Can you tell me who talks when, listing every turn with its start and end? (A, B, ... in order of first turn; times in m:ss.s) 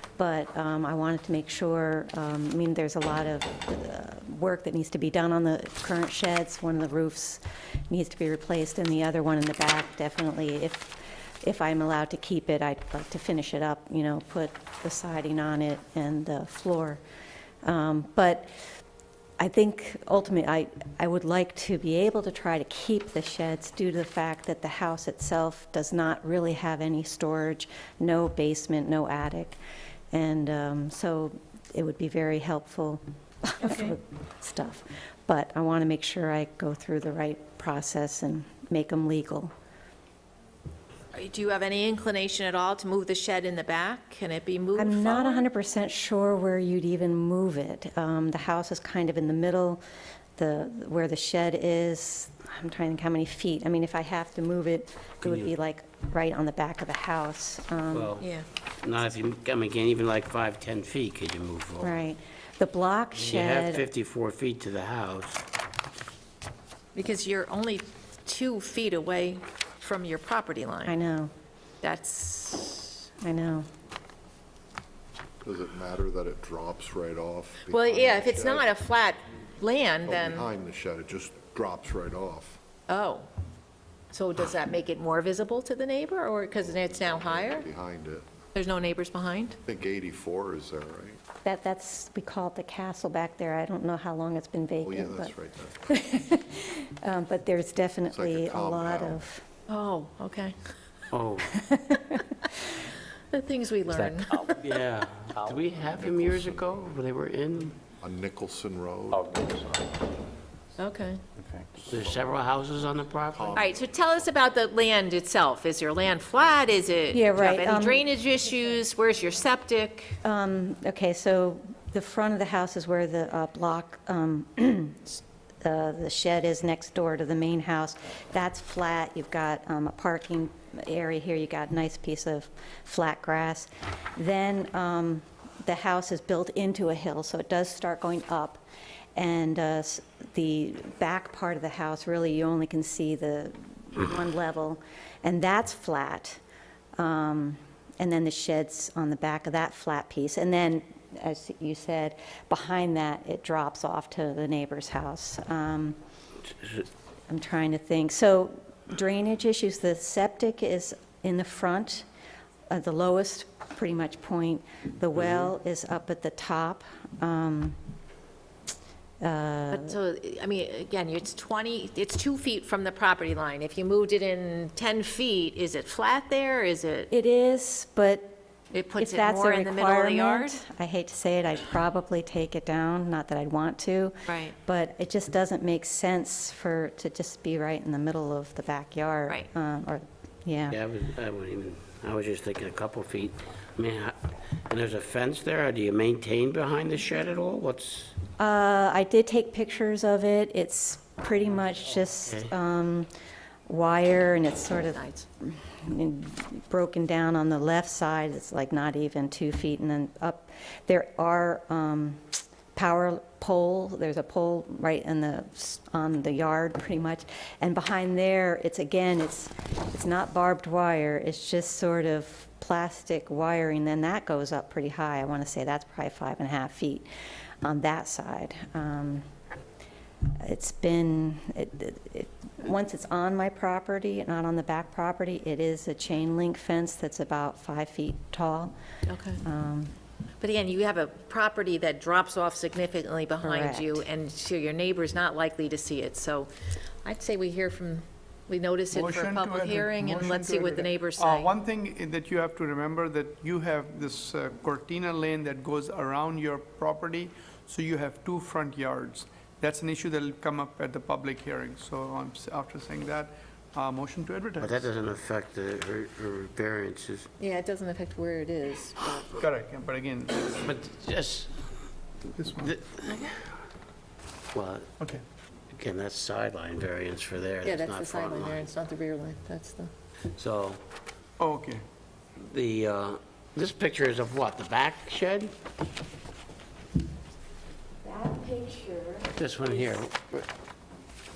0:00.2-0:17.0 A
0:17.6-0:18.5 A
0:19.4-0:29.6 A
0:30.1-0:39.5 A
0:33.6-0:34.0 B
0:41.1-0:45.4 B
0:44.8-0:49.8 A
0:50.4-0:58.1 A
0:55.2-0:55.5 C
0:57.9-1:02.0 C
0:58.2-0:58.4 B
1:01.8-1:03.8 A
1:03.1-1:05.4 C
1:06.9-1:10.9 B
1:10.8-1:11.3 A
1:11.8-1:13.0 B
1:13.2-1:13.7 A
1:15.4-1:18.7 D
1:17.7-1:20.5 B
1:20.0-1:22.6 D
1:22.9-1:23.3 B
1:24.1-1:27.7 B
1:26.6-1:28.3 D
1:28.5-1:29.6 B
1:29.6-1:31.2 D
1:31.4-1:35.3 A
1:34.8-1:35.9 D
1:35.9-1:39.4 A
1:38.1-1:39.2 D
1:39.7-1:40.6 B
1:41.1-1:41.7 C
1:41.6-1:42.3 A
1:43.3-1:44.5 B
1:44.6-1:47.8 C
1:45.8-1:46.9 D
1:47.8-1:50.2 D
1:50.8-1:51.2 B
1:51.7-1:52.4 D
1:51.9-1:53.6 C
1:53.2-1:54.3 D
1:53.5-2:00.2 B
1:57.1-1:58.0 A
2:00.2-2:18.6 A
2:19.2-2:26.4 A
2:27.0-2:36.0 A
2:37.3-2:42.0 A
2:42.7-2:47.8 A
2:45.2-2:45.5 C
2:49.2-2:49.9 A
2:49.7-2:57.1 B
2:57.1-2:58.4 A
2:58.7-3:00.6 B
2:59.0-3:10.8 A
3:04.2-3:04.5 B
3:10.7-3:18.2 C
3:18.4-3:23.1 A
3:22.2-3:22.5 C
3:23.7-3:47.1 A
3:24.9-3:25.2 B
3:47.6-3:49.3 A
3:50.4-3:58.7 A
3:59.1-3:59.4 B
3:59.4-3:59.9 A
4:00.4-4:11.5 B
4:03.4-4:04.0 A
4:08.9-4:24.9 E
4:24.6-4:27.3 C
4:27.4-4:29.3 B
4:29.4-4:30.5 E
4:30.5-4:31.7 C
4:32.4-4:32.7 E
4:32.6-4:33.5 C
4:34.5-4:34.9 C
4:35.7-4:38.7 C
4:37.6-4:39.9 B
4:40.3-4:40.8 C
4:41.4-4:41.8 E
4:42.4-4:45.5 C
4:48.0-4:50.0 A
4:49.3-4:50.5 C